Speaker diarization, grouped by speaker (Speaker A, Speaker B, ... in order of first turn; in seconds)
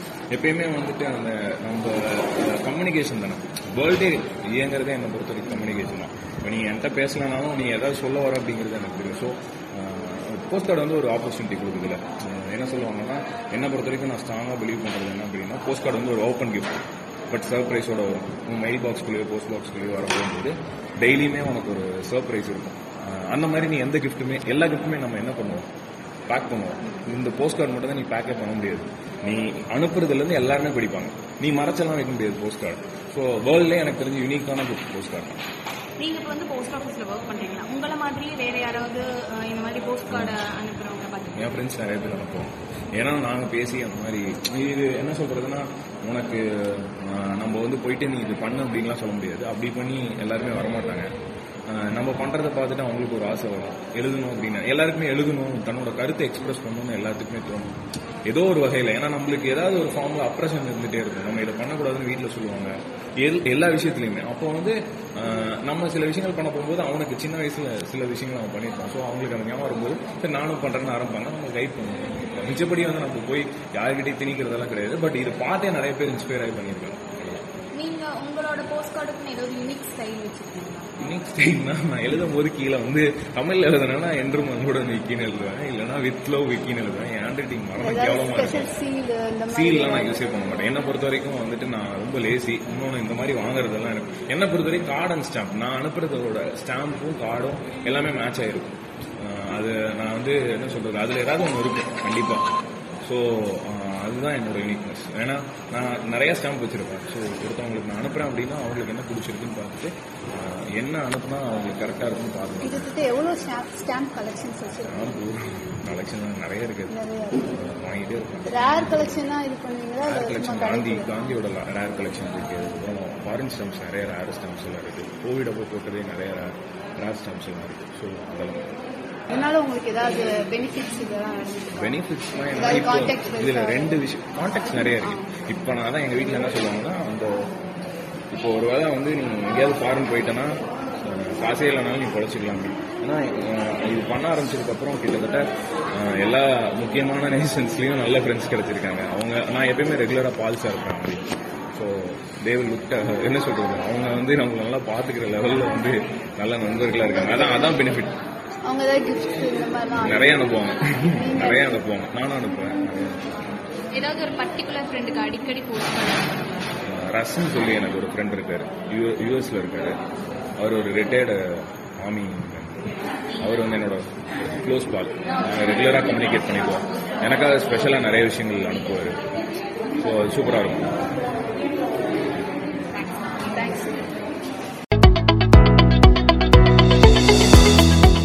Speaker A: 0.3-25.6, 26.3-35.4, 40.1-40.4, 41.4-51.1, 51.7-57.7, 58.2-77.4, 81.0-88.7, 89.5-102.4, 103.0-112.9, 114.8-119.2, 120.0-128.7, 131.8-137.5, 138.3-158.2, 160.0-163.3, 166.8-169.9, 170.6-179.3, 179.9-181.0
Speaker B: 36.0-41.5, 77.7-80.9, 163.9-166.7
Speaker C: 87.8-90.2, 112.6-115.2, 116.9-117.5, 118.5-121.1, 129.3-134.0, 134.7-135.3, 157.2-157.7, 158.6-160.3, 161.0-161.8, 183.5-183.9